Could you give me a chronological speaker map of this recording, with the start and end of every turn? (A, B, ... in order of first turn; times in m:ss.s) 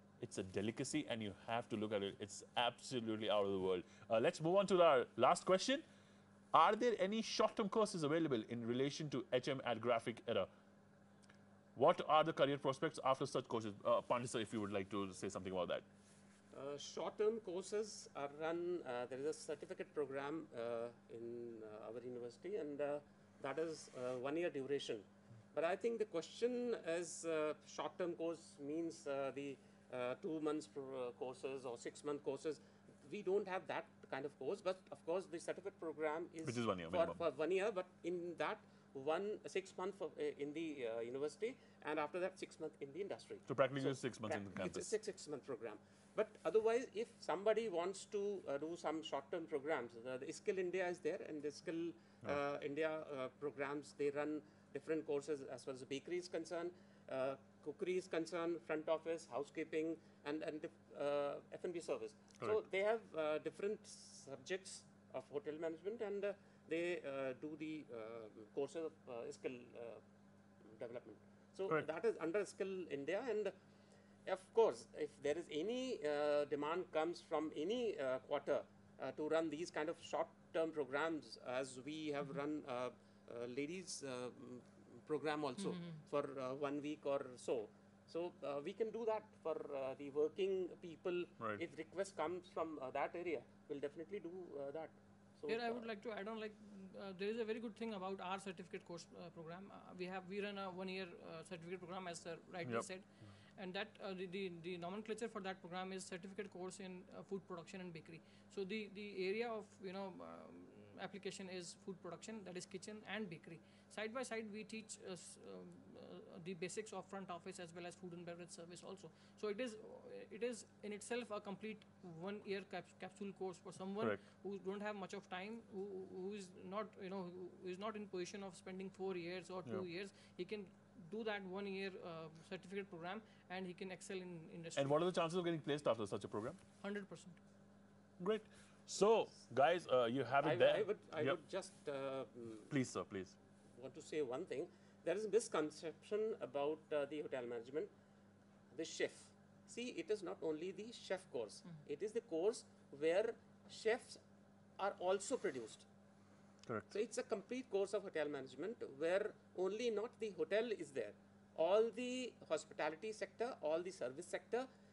0:00.2-0:05.8 A
0:06.5-0:10.5 A
0:11.7-0:15.8 A
0:16.5-1:10.0 B
0:36.4-0:37.2 A
0:43.5-0:44.9 A
1:10.6-1:13.5 B
1:14.2-1:35.8 B
1:35.5-1:43.0 C
1:43.6-2:15.0 C
2:14.8-2:16.6 A
2:16.8-2:17.4 C
2:18.2-2:21.4 A
2:20.4-2:22.7 B
2:22.7-2:23.3 A
2:23.8-2:27.9 B
2:28.7-2:34.2 B
2:34.8-2:35.8 B
2:36.9-2:44.7 B